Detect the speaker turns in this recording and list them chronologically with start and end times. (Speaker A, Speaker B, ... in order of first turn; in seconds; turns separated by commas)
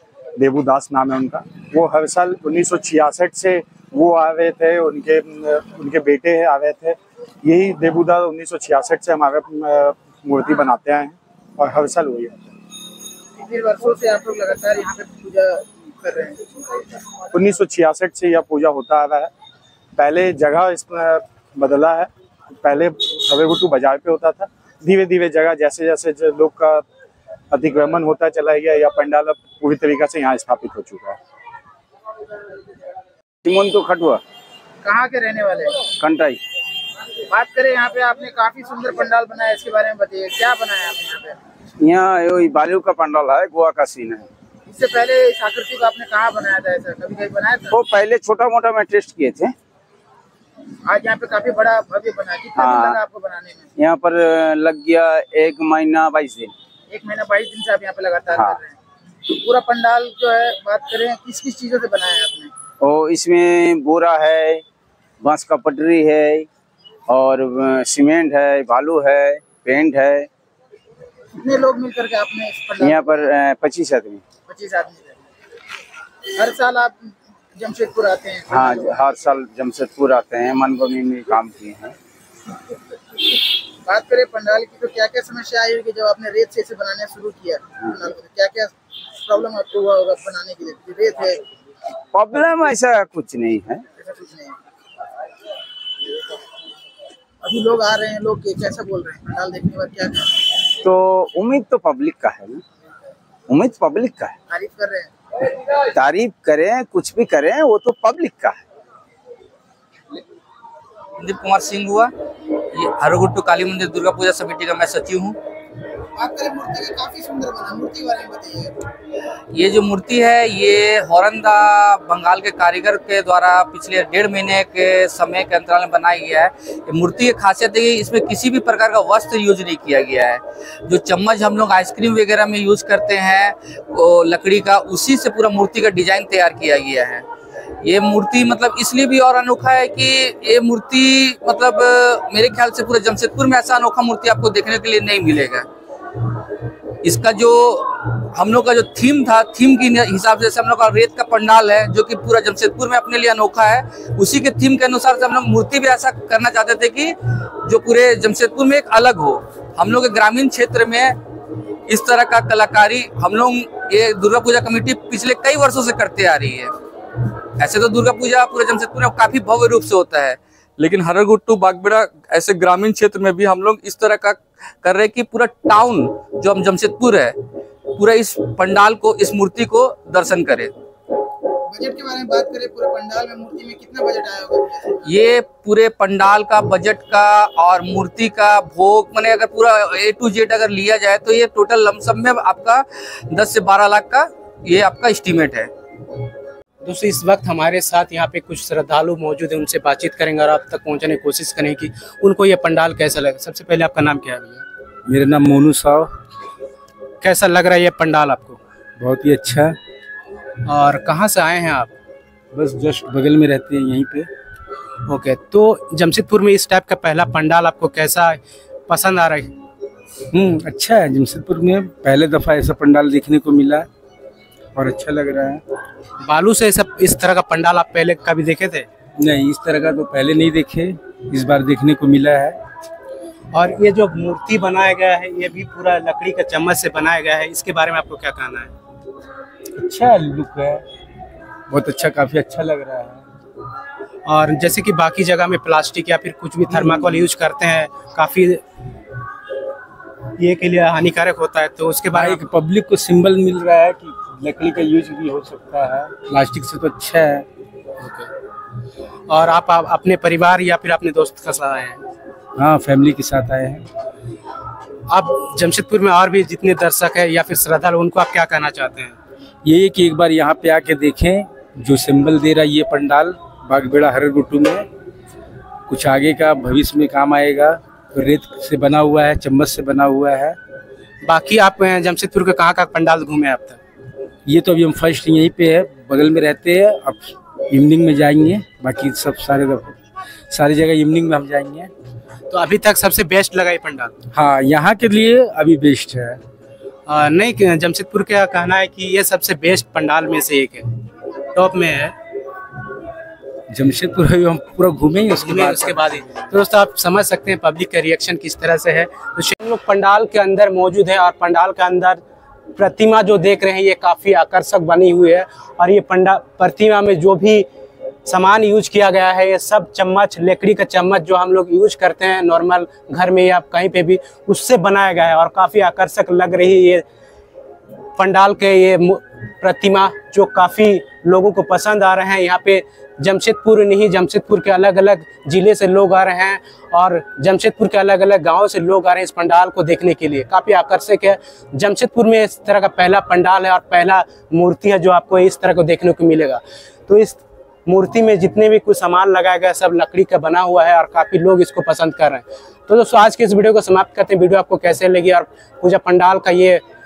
Speaker A: 0.4-12.4, Speaker B: 13.3-16.8, Speaker A: 17.3-19.3, Speaker A: 19.9-22.1, Speaker A: 22.6-26.8, Speaker A: 27.5-31.2, Speaker C: 33.4-34.2, Speaker B: 34.8-35.9, Speaker C: 36.0-36.4, Speaker B: 37.3-41.4, Speaker C: 41.8-44.3, Speaker B: 44.7-47.8, Speaker C: 47.7-49.5, Speaker B: 50.8-53.7, Speaker C: 52.5-53.0, Speaker C: 53.8-56.5, Speaker B: 56.9-62.5, Speaker C: 62.8-64.6, Speaker C: 65.2-66.5, Speaker C: 67.1-70.3, Speaker B: 71.3-73.3, Speaker C: 72.8-74.2, Speaker B: 74.5-75.3, Speaker B: 76.3-79.2, Speaker C: 78.5-81.9, Speaker B: 83.1-91.4, Speaker C: 92.1-93.8, Speaker B: 94.0-94.6, Speaker B: 97.4-100.5, Speaker C: 100.8-102.6, Speaker C: 103.5-104.3, Speaker B: 104.5-105.1, Speaker C: 105.9-108.6, Speaker D: 111.2-115.4, Speaker B: 116.1-118.8, Speaker D: 119.5-137.2, Speaker D: 137.8-145.7, Speaker D: 147.0-161.2, Speaker D: 161.9-166.7, Speaker D: 167.6-177.4, Speaker D: 177.9-180.7, Speaker B: 181.7-185.1, Speaker D: 185.1-195.7, Speaker E: 196.8-204.6, Speaker F: 205.1-206.1, Speaker E: 207.2-208.6, Speaker F: 209.0-209.8, Speaker E: 210.6-211.9, Speaker F: 212.5-214.3, Speaker E: 215.1-219.5, Speaker F: 220.3-223.9, Speaker F: 224.8-225.6, Speaker E: 226.2-228.9, Speaker F: 229.2-232.6, Speaker E: 233.5-238.7, Speaker F: 239.8-240.8, Speaker F: 241.7-243.2, Speaker E: 244.2-248.6, Speaker F: 246.7-247.3, Speaker E: 250.4-252.4, Speaker F: 252.1-257.4, Speaker E: 258.0-258.3, Speaker E: 259.3-262.0, Speaker F: 262.6-263.9, Speaker E: 265.1-269.1, Speaker F: 269.6-274.9, Speaker F: 275.9-280.6, Speaker E: 281.2-283.8, Speaker F: 284.4-290.0, Speaker F: 290.5-291.9, Speaker E: 292.5-294.1, Speaker F: 294.3-296.4, Speaker E: 297.1-300.9, Speaker E: 301.5-302.1, Speaker F: 303.7-306.4, Speaker E: 305.4-312.2, Speaker E: 312.8-317.6, Speaker E: 318.2-327.0, Speaker E: 328.2-356.8